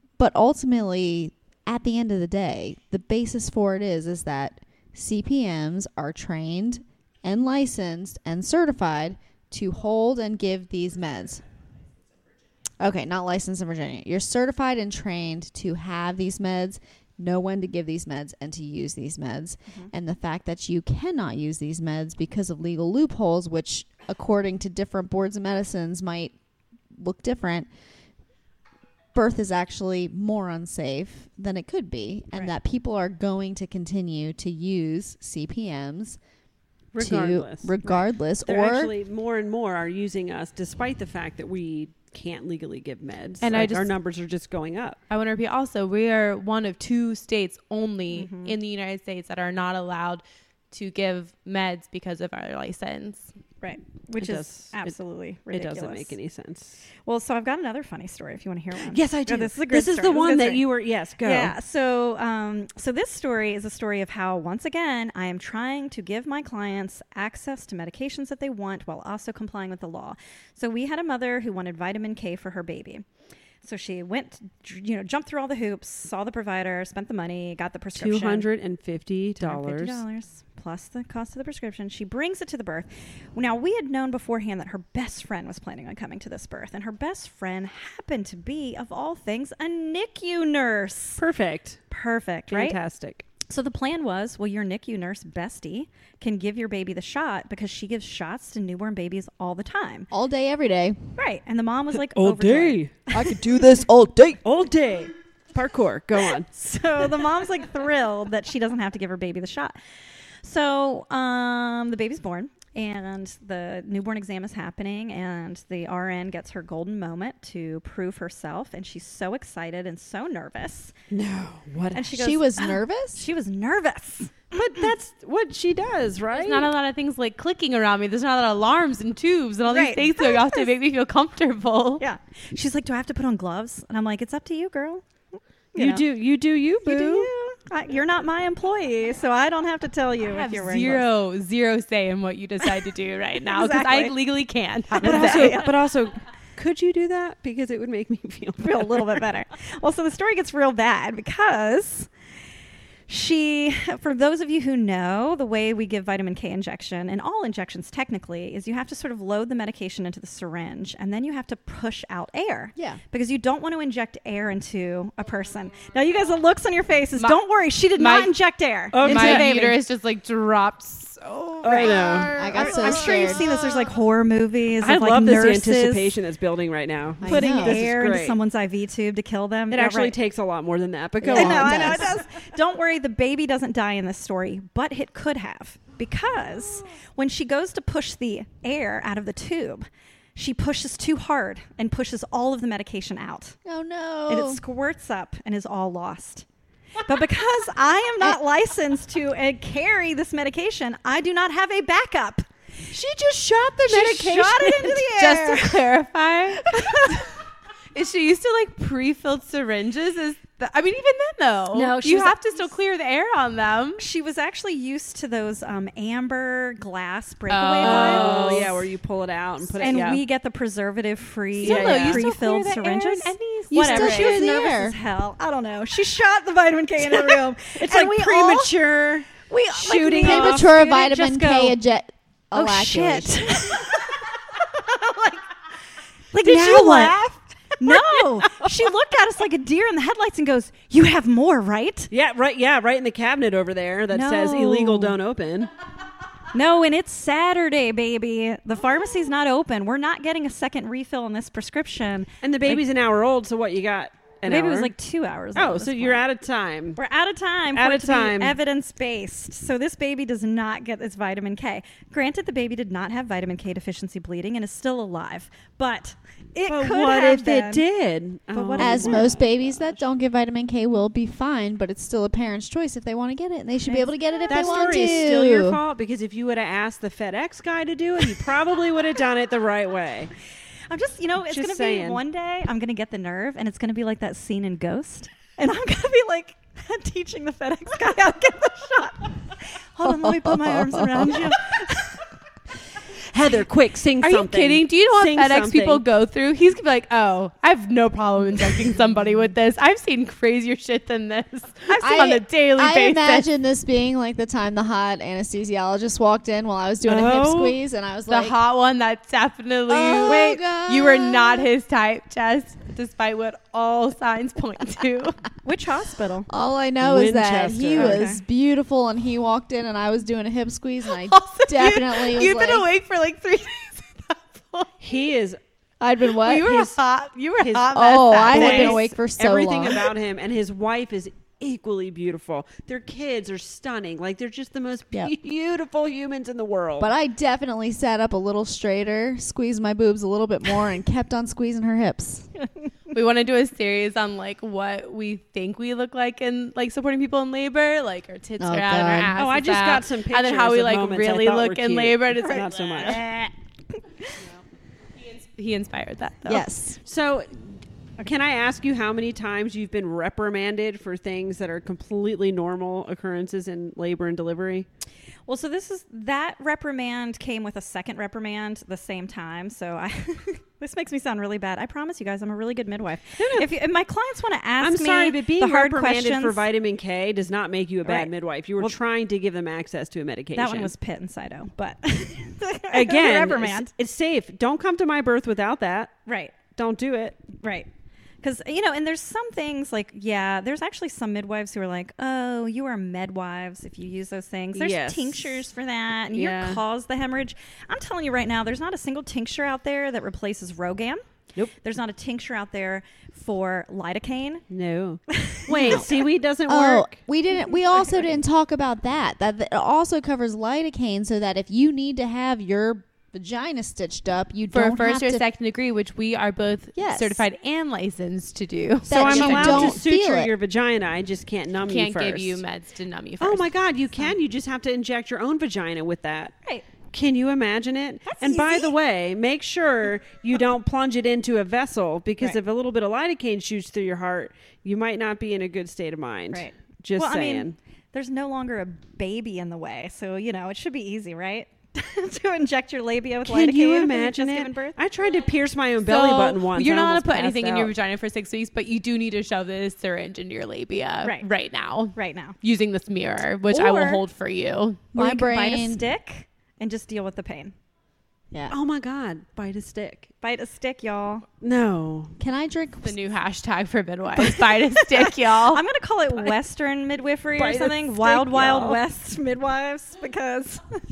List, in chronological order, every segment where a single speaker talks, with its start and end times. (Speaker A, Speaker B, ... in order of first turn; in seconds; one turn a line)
Speaker A: 0.2-11.4
Speaker A: 12.8-26.3
Speaker A: 26.9-27.7
Speaker A: 29.1-36.2
Speaker B: 36.9-45.0
Speaker A: 37.0-38.9
Speaker C: 43.4-43.9
Speaker C: 45.1-53.3
Speaker D: 48.1-48.5
Speaker D: 53.6-56.1
Speaker B: 54.2-54.9
Speaker B: 55.5-56.8
Speaker D: 57.0-60.7
Speaker B: 58.9-61.5
Speaker D: 61.2-73.0
Speaker D: 73.6-78.5
Speaker B: 77.9-80.0
Speaker D: 79.4-91.2
Speaker B: 91.2-91.8
Speaker D: 91.9-92.8
Speaker B: 92.5-93.2
Speaker D: 93.5-100.1
Speaker A: 100.1-101.2
Speaker D: 101.2-103.4
Speaker B: 102.1-103.0
Speaker A: 103.1-104.4
Speaker B: 104.4-106.5
Speaker D: 106.5-109.8
Speaker D: 110.4-120.9
Speaker B: 121.1-122.1
Speaker D: 121.9-124.8
Speaker A: 122.1-123.2
Speaker B: 124.5-126.7
Speaker C: 126.3-132.0
Speaker D: 129.7-130.7
Speaker D: 132.0-136.0
Speaker B: 135.8-137.3
Speaker D: 136.8-141.1
Speaker C: 140.3-145.7
Speaker D: 143.5-144.1
Speaker D: 144.9-145.7
Speaker B: 145.0-149.2
Speaker D: 148.6-152.1
Speaker D: 153.1-169.6
Speaker C: 167.9-168.3
Speaker B: 168.9-169.7
Speaker C: 169.0-173.1
Speaker B: 171.6-173.5
Speaker D: 171.6-176.2
Speaker A: 172.3-173.4
Speaker B: 174.8-178.4
Speaker A: 177.2-177.8
Speaker D: 177.2-180.2
Speaker B: 179.7-182.1
Speaker A: 181.2-182.1
Speaker D: 181.3-193.6
Speaker A: 193.6-194.6
Speaker D: 194.3-196.4
Speaker D: 197.0-202.5
Speaker B: 202.9-205.1
Speaker D: 203.8-205.9
Speaker C: 205.2-207.3
Speaker D: 206.7-207.2
Speaker C: 207.9-214.0
Speaker D: 211.7-212.4
Speaker D: 214.0-218.7
Speaker C: 217.5-218.8
Speaker B: 217.8-220.2
Speaker D: 219.8-228.7
Speaker B: 221.6-222.2
Speaker C: 221.6-224.5
Speaker A: 223.7-224.9
Speaker B: 227.0-230.7
Speaker D: 229.4-231.8
Speaker A: 230.2-233.6
Speaker D: 232.5-234.2
Speaker D: 235.0-235.4
Speaker D: 236.3-237.2
Speaker B: 236.3-238.7
Speaker D: 237.8-242.1
Speaker B: 242.1-245.7
Speaker D: 244.1-245.2
Speaker D: 246.5-252.8
Speaker B: 252.4-254.9
Speaker D: 254.4-256.2
Speaker B: 255.5-257.0
Speaker D: 256.9-267.8
Speaker B: 257.7-258.6
Speaker B: 266.7-270.0
Speaker D: 268.5-269.4
Speaker A: 268.8-275.8
Speaker D: 273.9-275.0
Speaker B: 274.5-280.3
Speaker D: 280.9-292.1
Speaker B: 281.5-282.2
Speaker A: 290.0-291.7
Speaker B: 293.3-296.0
Speaker C: 294.2-303.5
Speaker A: 302.0-308.6
Speaker B: 307.0-307.8
Speaker C: 308.3-315.4
Speaker A: 309.9-311.7
Speaker D: 315.6-316.5
Speaker A: 316.5-322.9
Speaker B: 317.0-318.3
Speaker D: 317.9-318.4
Speaker C: 321.1-325.0
Speaker B: 325.0-325.6
Speaker A: 326.0-326.9
Speaker C: 326.4-329.0
Speaker B: 326.5-326.9
Speaker B: 327.6-337.1
Speaker A: 327.9-330.1
Speaker A: 337.0-342.5
Speaker C: 343.1-353.2
Speaker A: 348.6-349.3
Speaker B: 349.3-353.2
Speaker D: 353.0-353.5
Speaker C: 355.3-356.6
Speaker A: 356.4-357.0
Speaker B: 357.0-364.9
Speaker D: 365.5-376.6
Speaker B: 373.4-373.7
Speaker B: 374.8-380.9
Speaker D: 378.0-378.9
Speaker D: 380.5-383.9
Speaker B: 382.9-387.5
Speaker D: 386.3-386.5
Speaker D: 387.6-387.9
Speaker D: 388.4-401.2
Speaker B: 394.7-395.7
Speaker B: 396.3-396.8
Speaker D: 401.7-404.6
Speaker B: 404.7-407.2
Speaker D: 405.3-406.1
Speaker A: 406.7-415.4
Speaker D: 407.9-408.3
Speaker C: 414.7-420.0
Speaker A: 416.9-417.4
Speaker A: 419.1-420.5
Speaker B: 419.1-422.6
Speaker C: 421.9-423.7
Speaker B: 423.4-426.6
Speaker B: 427.1-437.8
Speaker D: 428.3-428.9
Speaker D: 436.5-445.0
Speaker B: 443.4-447.9
Speaker C: 446.0-455.0
Speaker D: 451.2-451.5
Speaker D: 452.1-452.6
Speaker D: 453.7-454.2
Speaker A: 455.1-456.1
Speaker D: 455.1-457.7
Speaker B: 458.7-460.3
Speaker D: 460.4-461.4
Speaker B: 461.6-462.4
Speaker A: 462.4-463.2
Speaker C: 463.0-465.8
Speaker D: 464.4-470.8
Speaker B: 467.6-469.0